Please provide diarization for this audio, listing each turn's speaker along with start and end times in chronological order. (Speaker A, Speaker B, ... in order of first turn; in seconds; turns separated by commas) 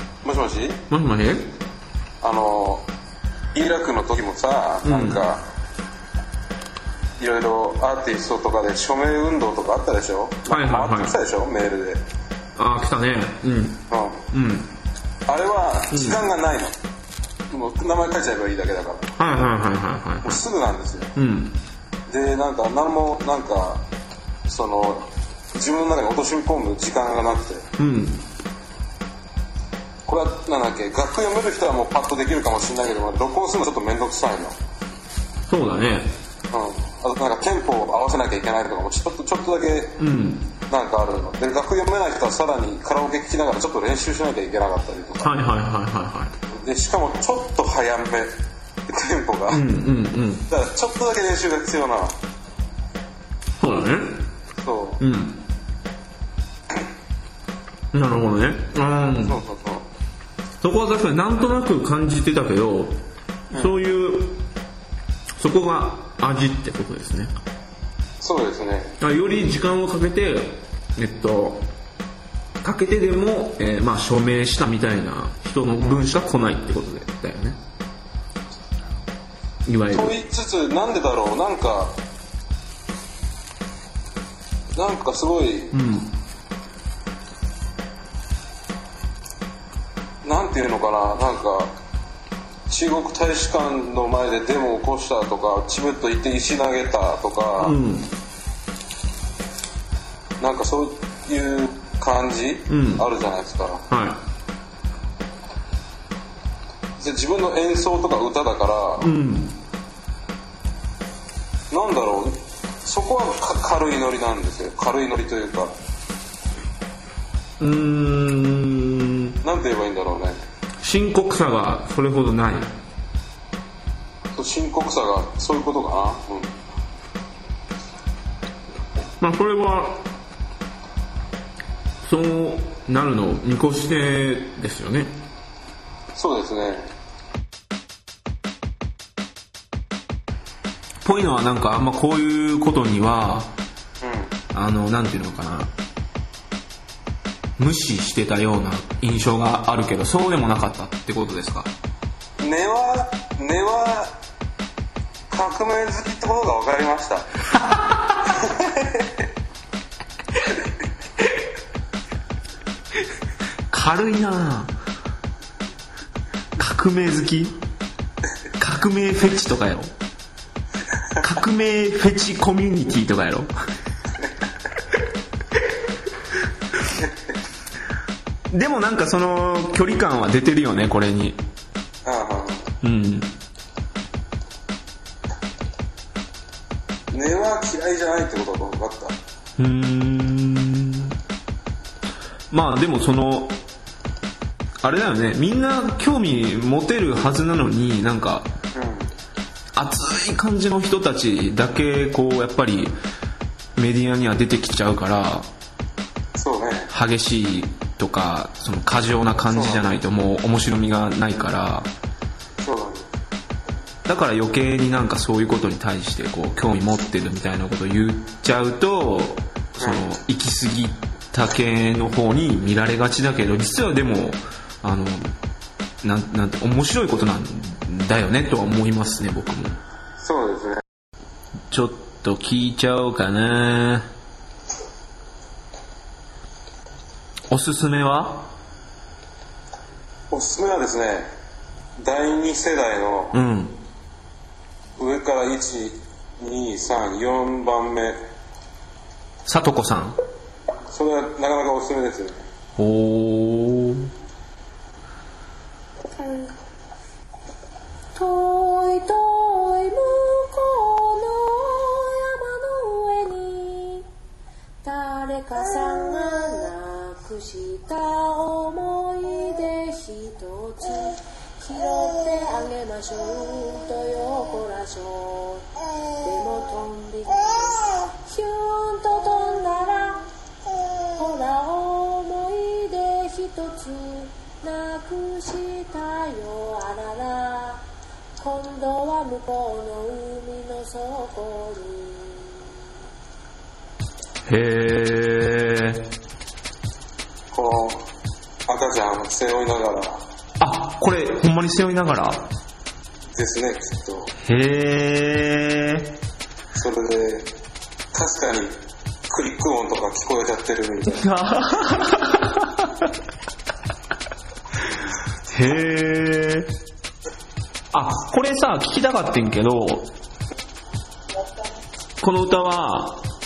Speaker A: 0.2-0.8, Speaker B: 0.9-1.6, Speaker A: 2.2-2.9, Speaker A: 3.5-5.4, Speaker B: 4.8-5.2, Speaker A: 7.2-12.0, Speaker B: 10.5-11.2, Speaker B: 12.6-14.7, Speaker A: 13.9-14.2, Speaker A: 15.3-16.7, Speaker B: 15.9-16.2, Speaker A: 17.5-19.1, Speaker B: 19.2-20.4, Speaker A: 20.2-21.1, Speaker B: 21.2-21.6, Speaker A: 22.1-23.8, Speaker A: 24.4-27.7, Speaker B: 27.8-28.2, Speaker A: 30.1-34.5, Speaker B: 35.5-36.1, Speaker A: 36.5-40.0, Speaker B: 40.0-40.5, Speaker A: 40.7-45.3, Speaker B: 45.2-46.3, Speaker A: 46.5-48.4, Speaker A: 48.9-49.6, Speaker B: 49.5-50.5, Speaker A: 50.5-52.1, Speaker B: 53.6-54.2, Speaker A: 54.6-55.0, Speaker B: 55.0-55.4, Speaker B: 57.9-59.4, Speaker A: 59.2-59.9, Speaker B: 60.6-63.0, Speaker B: 63.5-64.4, Speaker B: 65.4-67.3, Speaker A: 68.2-69.0, Speaker B: 69.0-71.7, Speaker B: 72.6-77.6, Speaker B: 79.7-80.2, Speaker A: 79.9-82.0, Speaker A: 84.8-85.7, Speaker B: 85.7-86.2, Speaker A: 90.2-91.7, Speaker A: 92.7-97.8, Speaker B: 97.6-98.1, Speaker A: 100.4-103.8, Speaker B: 102.7-103.1, Speaker B: 103.9-104.2, Speaker A: 107.0-109.1, Speaker B: 109.0-109.6, Speaker A: 111.7-115.8, Speaker B: 117.6-119.4, Speaker A: 119.4-120.4, Speaker B: 120.8-122.7, Speaker A: 124.3-126.6, Speaker B: 129.2-130.0, Speaker B: 132.0-135.1, Speaker A: 136.2-136.9, Speaker B: 141.0-143.5, Speaker A: 144.0-144.3, Speaker B: 144.5-145.7, Speaker B: 147.6-151.7, Speaker A: 152.4-154.1, Speaker A: 155.3-157.3, Speaker B: 157.6-158.0, Speaker A: 158.4-159.1, Speaker B: 163.7-164.7, Speaker B: 166.6-167.6, Speaker B: 168.6-169.9, Speaker B: 171.2-173.5, Speaker B: 178.5-181.4, Speaker A: 182.1-182.7, Speaker B: 182.8-183.3, Speaker A: 187.1-189.2, Speaker B: 189.6-191.2, Speaker B: 192.5-193.6, Speaker B: 194.8-198.5, Speaker A: 198.7-199.1, Speaker B: 199.8-203.0, Speaker B: 203.8-205.5, Speaker A: 206.3-206.9, Speaker B: 206.9-211.9, Speaker A: 209.5-209.9, Speaker A: 212.6-213.1, Speaker B: 214.1-225.3, Speaker B: 226.0-229.8, Speaker A: 230.2-230.8, Speaker B: 231.7-234.1, Speaker B: 237.5-238.5, Speaker A: 240.3-241.3, Speaker A: 242.0-243.4, Speaker B: 243.3-243.8, Speaker A: 245.0-248.2, Speaker B: 249.5-250.2, Speaker A: 250.9-252.4, Speaker B: 252.8-254.1, Speaker C: 258.1-264.1, Speaker C: 264.8-275.7, Speaker C: 276.2-280.3, Speaker C: 281.1-287.8, Speaker C: 288.4-292.6, Speaker B: 294.5-296.1, Speaker A: 297.5-298.1, Speaker A: 298.7-300.2, Speaker B: 300.6-302.5, Speaker A: 303.3-304.3, Speaker B: 304.4-306.1, Speaker A: 306.7-307.5, Speaker A: 308.1-308.8, Speaker A: 309.3-311.3, Speaker B: 311.1-313.1, Speaker B: 315.5-316.7, Speaker B: 317.9-320.1, Speaker B: 322.2-323.2